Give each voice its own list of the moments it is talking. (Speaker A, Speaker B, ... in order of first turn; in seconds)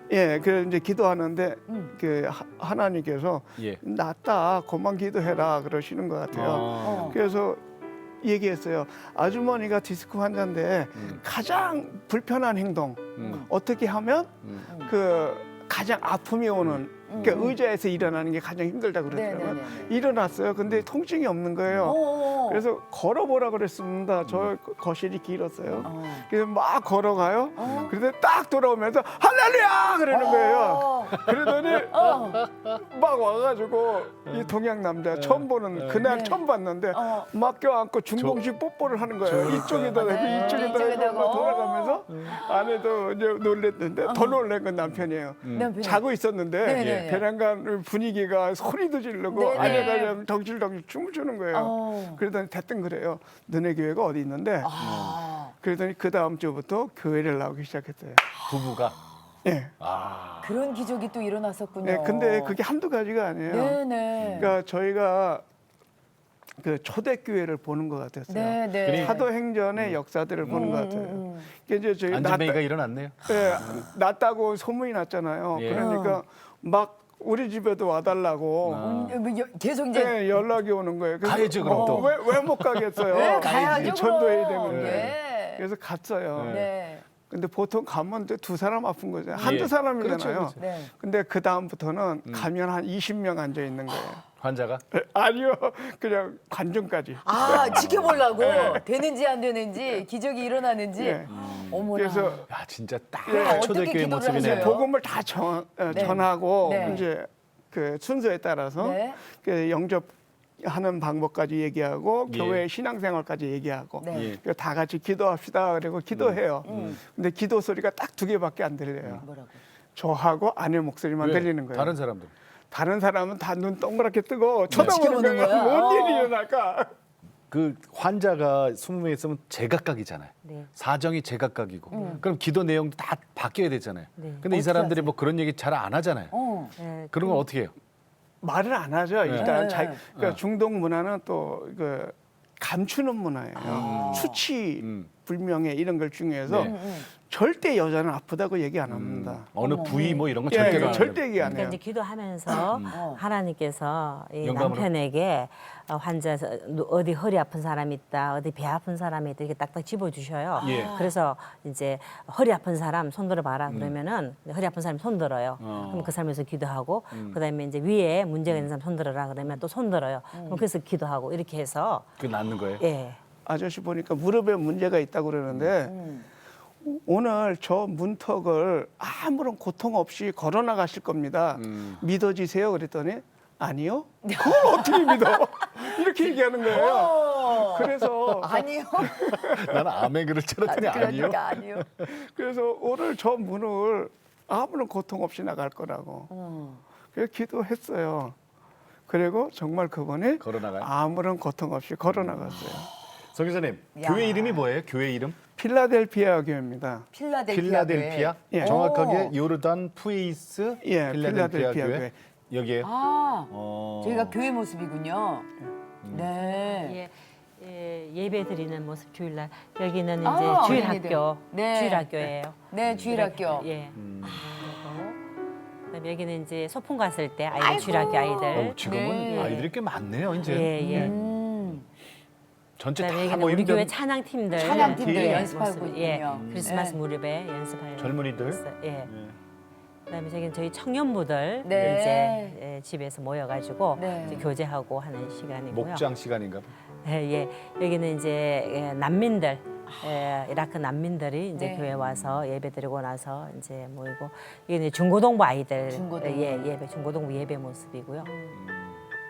Speaker A: 0.1-7.6, 8.2-32.2, 32.7-54.7, 55.6-58.2, 59.4-59.7, 61.8-63.8, 64.4-65.4, 66.6-72.6, 73.2-78.9, 79.9-86.6, 87.3-94.2, 94.9-98.8, 101.0-101.3, 102.0-102.5, 103.3-119.3, 120.0-122.0, 122.7-126.9, 138.4-151.8, 173.5-175.9, 176.8-189.8, 192.0-196.3, 197.1-198.3, 199.1-202.9, 205.6-207.1, 208.5-208.8, 210.8-212.1
Speaker B: 1.7-1.9, 6.8-7.2, 13.2-13.5, 14.7-15.0, 17.1-17.6, 19.1-19.9, 21.8-22.6, 25.8-26.3, 27.6-27.9, 30.1-32.5, 36.0-37.3, 39.4-42.9, 44.0-44.4, 45.5-46.0, 46.6-47.3, 49.3-50.2, 51.5-52.2, 54.6-55.5, 58.3-58.9, 60.4-62.6, 63.5-64.6, 68.3-69.3, 70.5-71.5, 73.3-73.8, 75.7-76.2, 78.8-80.3, 81.6-82.2, 83.1-85.7, 86.5-87.0, 89.3-90.9, 97.2-102.5, 103.3-104.9, 105.9-107.1, 108.8-109.2, 114.0-114.3, 116.7-117.0, 119.2-119.6, 124.7-126.3, 131.9-132.2, 134.5-135.1, 136.3-136.7, 139.3-140.0, 143.6-144.4, 146.5-147.1, 149.6-150.9, 152.9-153.2, 160.6-161.1, 170.3-170.7, 175.8-176.3, 184.2-189.7, 190.7-191.9, 196.3-196.8, 203.9-204.7, 207.1-209.3, 212.8-215.5, 216.1-217.0, 220.2-223.7, 227.5-229.7, 230.8-231.8, 234.5-237.0, 241.6-242.6, 244.0-244.5, 249.9-250.2, 251.6-251.9, 255.9-256.7, 258.2-258.6
Speaker C: 3.6-3.8, 6.3-7.2, 11.0-11.2, 13.2-13.4, 16.6-17.5, 21.6-22.0, 24.2-24.5, 27.6-27.9, 31.2-32.8, 35.1-36.1, 38.2-38.4, 39.2-41.6, 44.8-45.7, 46.8-47.2, 49.5-49.9, 54.8-55.2, 58.5-59.0, 59.8-60.6, 64.2-64.6, 68.8-69.2, 69.8-70.7, 72.1-73.9, 75.5-75.9, 78.6-79.2, 81.2-84.0, 84.7-85.1, 86.3-86.7, 89.4-90.6, 92.3-92.5, 94.4-94.8, 97.4-98.8, 101.3-101.9, 102.5-104.9, 105.9-107.0, 112.3-112.7, 114.1-114.4, 116.1-117.0, 121.2-122.3, 124.7-125.0, 127.5-136.3, 137.1-137.7, 139.2-139.5, 143.7-144.3, 144.8-145.1, 146.5-146.7, 148.9-151.8, 152.7-152.9, 154.4-154.9, 160.6-161.0, 163.7-164.0, 165.6-166.1, 167.1-167.4, 172.2-172.8, 181.5-182.0, 189.0-192.1, 200.4-200.9, 202.1-205.4, 207.5-212.9, 213.5-214.4, 216.0-216.3, 220.7-220.9, 222.9-223.2, 223.9-224.4, 228.5-231.8, 232.8-233.9, 234.6-235.5, 236.3-236.8, 238.0-239.4, 244.2-244.5, 245.7-246.7, 251.9-252.4, 258.5-259.0
Speaker D: 130.4-130.7, 134.2-134.5, 136.8-137.4, 150.6-172.1, 172.8-173.2, 216.8-225.2, 225.9-228.8, 229.3-229.7, 230.4-231.1, 233.0-239.1, 240.1-246.1, 247.0-258.3